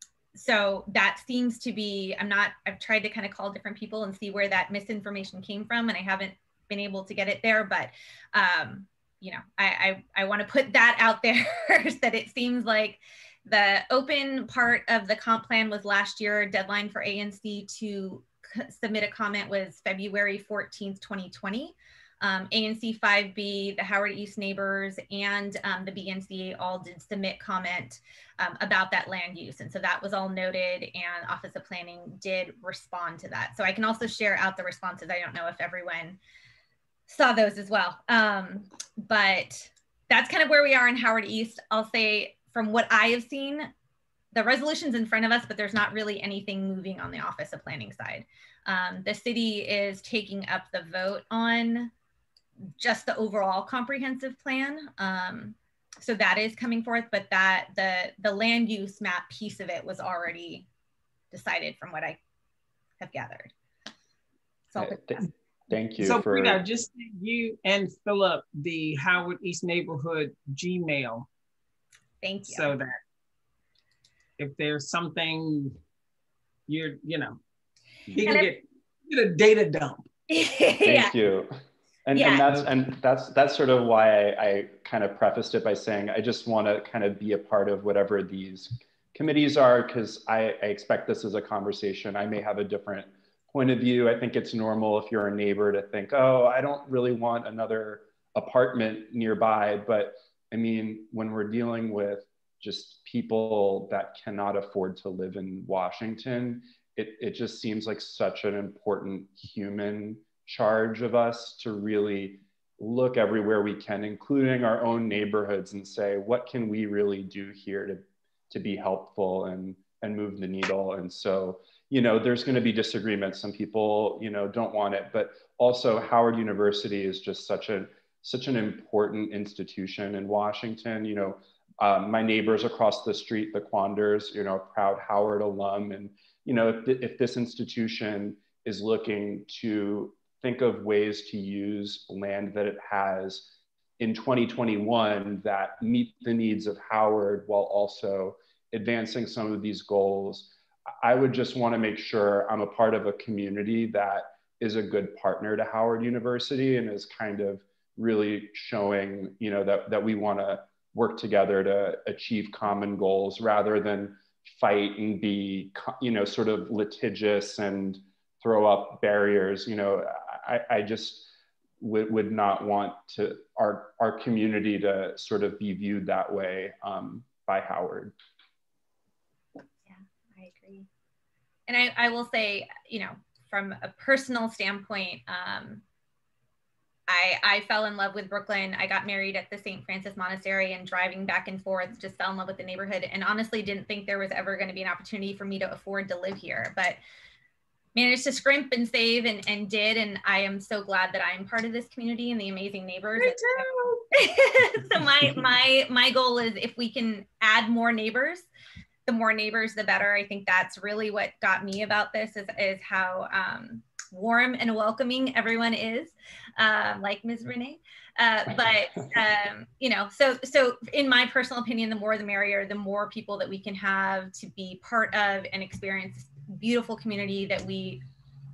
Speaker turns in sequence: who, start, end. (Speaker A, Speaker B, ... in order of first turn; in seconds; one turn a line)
Speaker A: 0.3-36.2
Speaker A: 37.1-43.7
Speaker A: 44.3-51.9
Speaker A: 52.8-60.6
Speaker A: 61.3-62.2
Speaker A: 63.0-63.5
Speaker A: 64.7-65.0
Speaker B: 64.8-66.6
Speaker C: 66.0-71.3
Speaker A: 72.2-72.7
Speaker C: 72.4-73.0
Speaker C: 74.4-75.8
Speaker C: 76.7-77.4
Speaker B: 78.1-78.4
Speaker C: 78.1-80.1
Speaker A: 78.2-78.5
Speaker A: 80.3-81.1
Speaker B: 80.8-81.5
Speaker B: 82.0-178.1
Speaker A: 82.1-82.5
Speaker A: 179.9-180.9
Speaker A: 181.7-185.8
Speaker A: 187.1-197.0
Speaker A: 197.9-208.4
Speaker C: 203.3-204.0
Speaker A: 209.1-228.0